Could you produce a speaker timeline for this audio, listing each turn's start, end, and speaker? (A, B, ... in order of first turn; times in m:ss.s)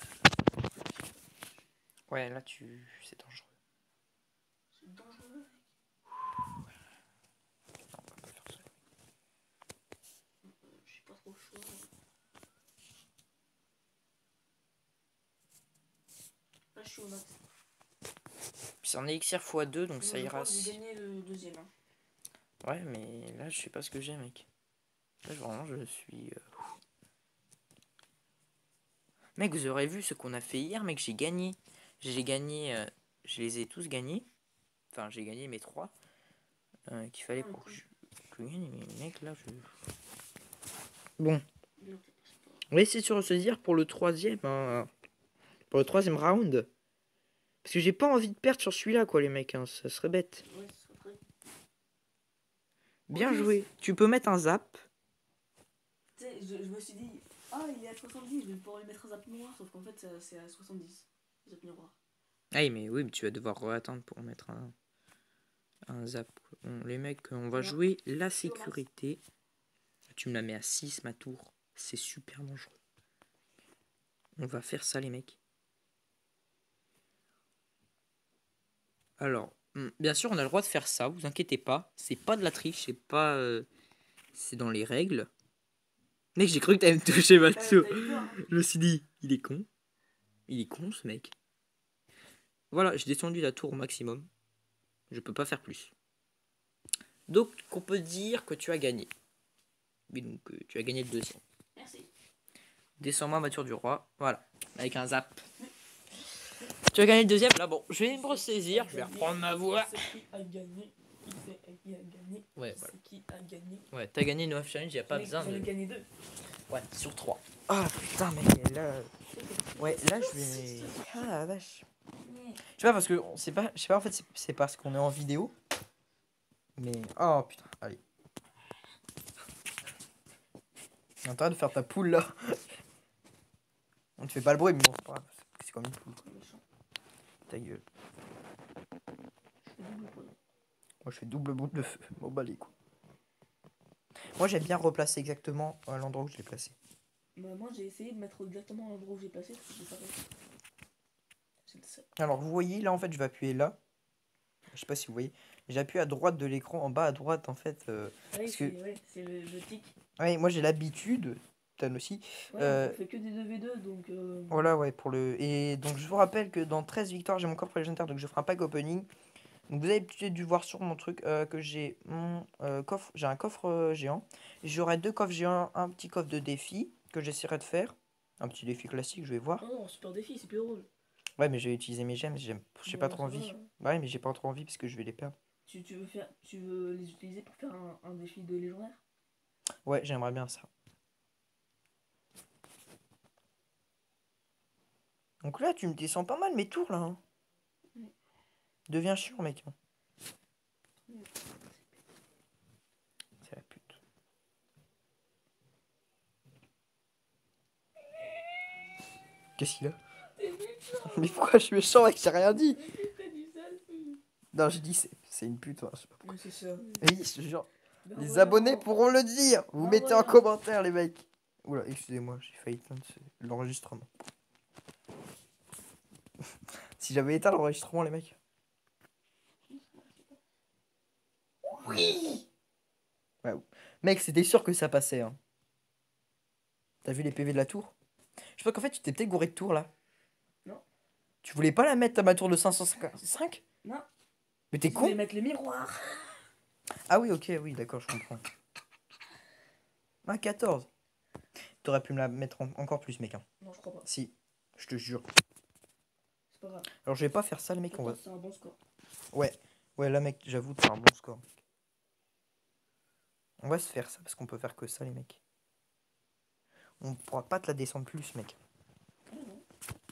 0:00.7-0:01.2 A
0:02.1-0:03.5 B
0:04.7-0:05.6 A
0:08.0-0:08.6 B
0:10.4-0:11.9 A
0:16.7-0:17.4 A
0:18.8-0:20.8 B
0:20.0-0:21.7 A
0:22.6-0:24.4 B
0:25.2-0:26.6 B
0:29.4-0:34.2 B
0:34.9-0:35.9 B
0:36.9-0:39.7 B
0:37.3-0:37.8 A
0:41.2-0:41.4 B
0:41.8-0:42.6 A
0:42.7-0:44.9 B
0:45.7-0:46.7 B
0:47.6-0:50.4 B
0:50.4-0:51.2 A
0:53.1-0:54.8 B
0:53.1-0:53.7 A
0:56.2-1:02.0 A
1:02.5-1:04.7 B
1:05.9-1:09.2 B
1:07.5-1:07.8 A
1:08.3-1:08.8 A
1:10.1-1:12.8 B
1:14.4-1:15.4 B
1:19.2-1:23.7 B
1:24.3-1:25.3 B
1:26.4-1:29.6 B
1:27.5-1:28.5 A
1:30.5-1:31.3 B
1:32.7-1:34.3 B
1:35.1-1:35.9 B
1:37.3-1:39.1 B
1:40.1-1:41.4 B
1:41.8-1:42.1 A
1:43.0-1:45.4 B
1:46.9-1:50.1 B
1:48.0-1:53.9 A
1:52.6-1:52.9 B
1:53.9-1:55.7 B
1:55.1-1:56.1 A
1:56.7-1:59.1 B
1:59.3-2:01.3 A
1:59.8-2:01.8 B
2:02.2-2:02.6 A
2:02.7-2:05.5 B
2:06.8-2:08.0 B
2:11.2-2:12.6 B
2:14.2-2:16.2 B
2:16.2-2:16.6 A
2:17.5-2:17.8 B
2:19.6-2:20.4 A
2:21.0-2:22.7 B
2:24.4-2:26.7 B
2:27.3-2:30.3 A
2:31.6-2:32.0 A
2:32.2-2:33.8 B
2:34.7-2:38.7 B
2:38.3-2:39.9 A
2:40.2-2:43.0 B
2:42.5-2:44.7 A
2:44.5-2:49.1 B
2:49.7-2:59.6 B
2:59.6-3:00.9 A
3:01.4-3:05.3 B
3:02.8-3:03.7 A
3:05.6-3:09.0 A
3:09.8-3:10.7 B
3:15.4-3:17.2 B
3:18.9-3:19.7 B
3:21.1-3:22.0 A
3:23.4-3:24.0 B
3:29.6-3:30.0 B
3:30.4-3:31.5 A
3:31.0-3:32.8 B
3:32.7-3:34.2 A
3:34.5-3:36.3 B
3:36.2-3:37.1 A
3:37.0-3:44.1 B
3:38.0-3:38.8 A
3:39.8-3:40.4 A
3:47.0-3:48.4 B
3:49.7-3:50.4 A
3:51.8-3:52.4 A
3:51.8-3:52.1 B
3:53.4-3:55.4 B
3:57.0-3:57.9 B
3:58.5-3:59.9 B
4:01.4-4:03.6 B
4:04.7-4:05.2 B
4:04.8-4:06.4 A
4:07.1-4:08.4 B
4:10.2-4:10.9 B
4:11.8-4:13.4 B
4:13.6-4:14.0 A
4:14.0-4:15.2 B
4:16.5-4:16.9 A
4:17.0-4:18.2 B
4:17.9-4:18.8 A
4:19.3-4:21.6 B
4:23.6-4:25.4 B
4:27.0-4:28.6 B
4:29.3-4:29.6 A